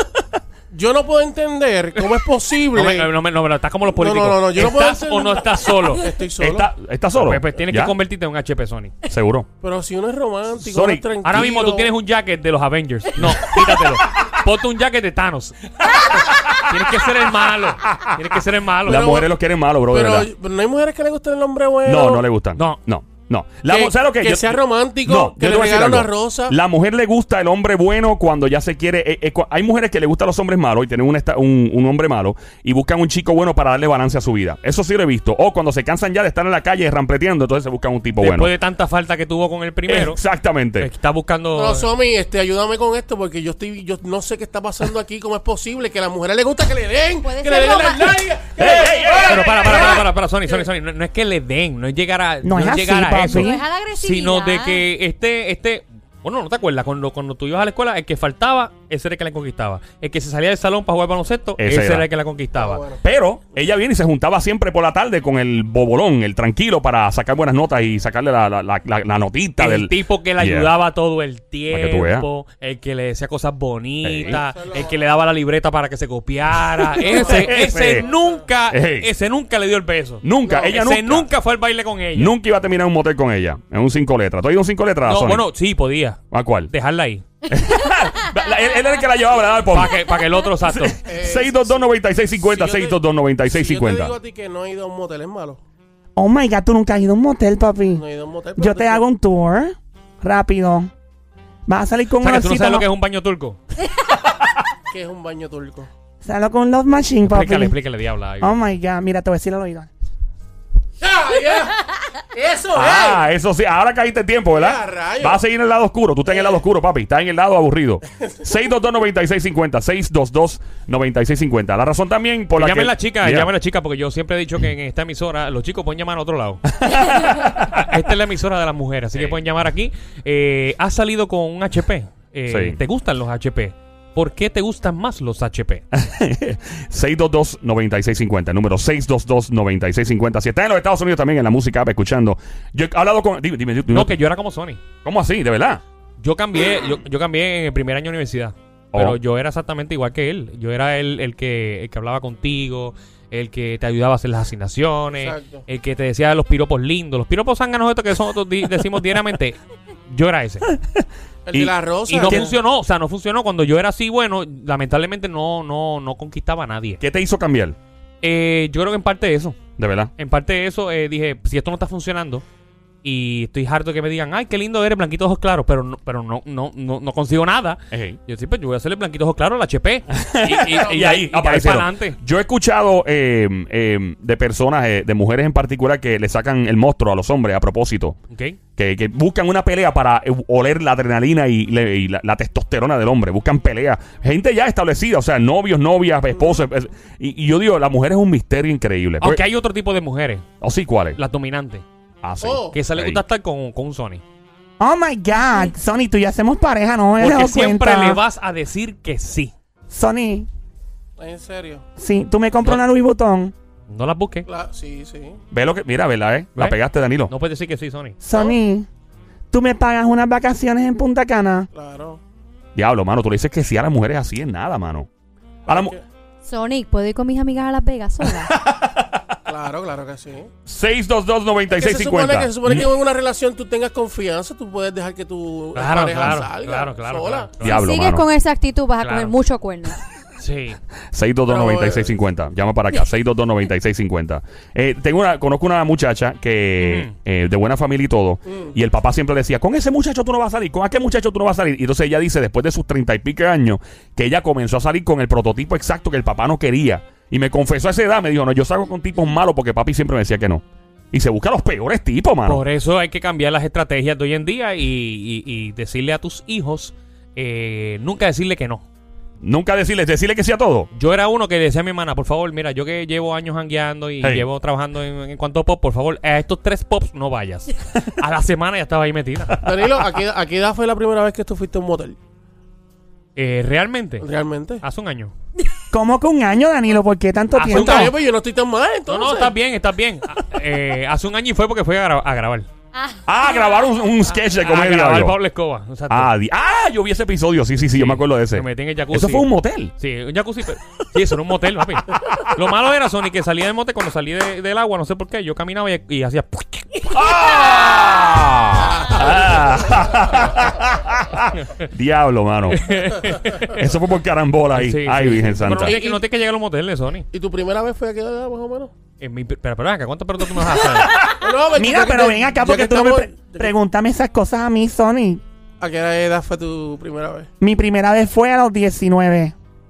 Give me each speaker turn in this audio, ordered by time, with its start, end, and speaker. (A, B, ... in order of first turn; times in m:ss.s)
0:00.7-0:03.1 A
0:02.7-0:06.1 B
0:03.9-0:06.7 A
0:06.4-0:08.0 C
0:07.2-0:09.0 B
0:09.1-0:09.5 C
0:09.6-0:11.9 A
0:10.6-0:11.4 C
0:11.2-0:19.1 B
0:18.9-0:19.3 A
0:18.9-0:20.3 C
0:19.9-0:22.2 A
0:21.8-0:38.5 C
0:23.7-0:26.6 A
0:38.2-0:40.2 B
0:39.9-0:40.9 C
0:40.8-0:41.9 B
0:41.6-0:50.1 A
0:47.2-0:48.2 D
0:48.6-0:49.4 C
0:49.1-1:02.8 B
0:52.4-0:53.6 E
0:53.4-0:54.9 D
1:01.6-1:02.1 C
1:02.6-1:03.0 A
1:03.0-1:10.7 C
1:09.6-1:22.3 B
1:11.7-1:12.3 C
1:14.0-1:14.4 C
1:14.3-1:14.9 A
1:17.0-1:18.0 C
1:17.1-1:18.2 A
1:18.7-1:19.1 C
1:20.2-1:21.3 C
1:20.4-1:20.8 A
1:22.2-1:25.5 C
1:25.0-1:27.2 B
1:26.3-1:26.7 C
1:27.5-1:30.1 C
1:29.7-1:31.0 B
1:30.7-1:34.2 C
1:31.0-1:31.8 A
1:32.3-1:35.6 A
1:36.2-1:38.0 E
1:37.9-1:39.0 A
1:38.6-1:40.9 E
1:41.7-1:42.9 E
1:42.2-1:43.6 B
1:44.9-1:45.9 A
1:46.2-1:47.8 E
1:47.2-1:48.6 B
1:48.4-1:49.9 E
1:51.0-1:53.2 A
1:52.7-2:03.5 C
1:54.5-1:55.4 A
2:02.6-2:15.8 B
2:06.8-2:07.7 C
2:09.1-2:09.4 C
2:12.5-2:12.8 C
2:15.9-2:24.2 C
2:23.9-2:24.8 B
2:25.0-2:25.8 C
2:26.2-2:40.7 B
2:28.9-2:29.2 C
2:35.2-2:35.6 A
2:41.5-2:42.6 A
2:42.1-2:47.0 B
2:47.0-2:47.8 C
2:48.2-2:49.6 B
2:49.8-2:50.1 C
2:50.2-2:52.4 B
2:53.0-3:02.2 B
2:57.9-2:58.2 C
3:00.1-3:08.2 C
3:00.6-3:01.1 A
3:08.3-3:08.6 B
3:08.8-3:19.4 C
3:19.2-3:20.5 B
3:20.6-3:21.2 C
3:21.2-3:21.8 B
3:22.2-3:23.2 C
3:22.4-3:22.8 A
3:22.7-3:24.2 B
3:24.8-3:28.2 E
3:27.2-3:29.5 B
3:29.9-3:30.5 E
3:31.2-3:31.8 A
3:32.0-3:33.5 E
3:33.9-3:34.5 B
3:34.5-3:35.4 A
3:35.5-3:37.3 C
3:37.3-3:38.2 B
3:38.2-3:38.9 E
3:39.5-3:41.7 E
3:41.7-3:42.2 A
3:42.8-3:45.1 C
3:45.7-3:46.0 C
3:45.7-3:46.0 A
3:46.4-3:48.6 D
3:48.4-3:49.3 C
3:49.5-3:50.5 A
3:50.7-3:52.9 C
3:51.7-3:57.7 A
3:55.7-3:57.8 B
3:57.6-3:58.3 C
3:57.6-4:00.0 D
3:59.0-3:59.4 B
4:00.4-4:00.8 B
4:01.1-4:22.6 C
4:01.5-4:02.2 A
4:06.8-4:07.1 B
4:22.4-4:28.8 B
4:29.4-4:30.9 C
4:30.9-4:39.7 B
4:34.2-4:34.5 C
4:39.6-4:42.2 A
4:43.4-4:44.3 B
4:44.2-4:44.8 A
4:44.8-4:45.3 B
4:45.9-4:48.1 E
4:47.5-4:48.1 B
4:47.7-4:49.6 A
4:49.1-4:52.7 B
4:53.0-4:53.8 D
4:53.3-4:55.4 C
4:54.3-4:56.3 B
4:56.1-4:59.9 C
4:57.9-5:07.4 B
5:07.1-5:13.0 C
5:08.8-5:09.9 A
5:12.7-5:13.8 B
5:13.6-5:16.0 C
5:14.7-5:17.3 B
5:15.8-5:16.2 A
5:17.3-5:18.9 A
5:19.2-5:21.2 B
5:21.3-5:23.7 A
5:21.7-5:25.4 E
5:25.8-5:27.5 A
5:27.6-5:29.6 E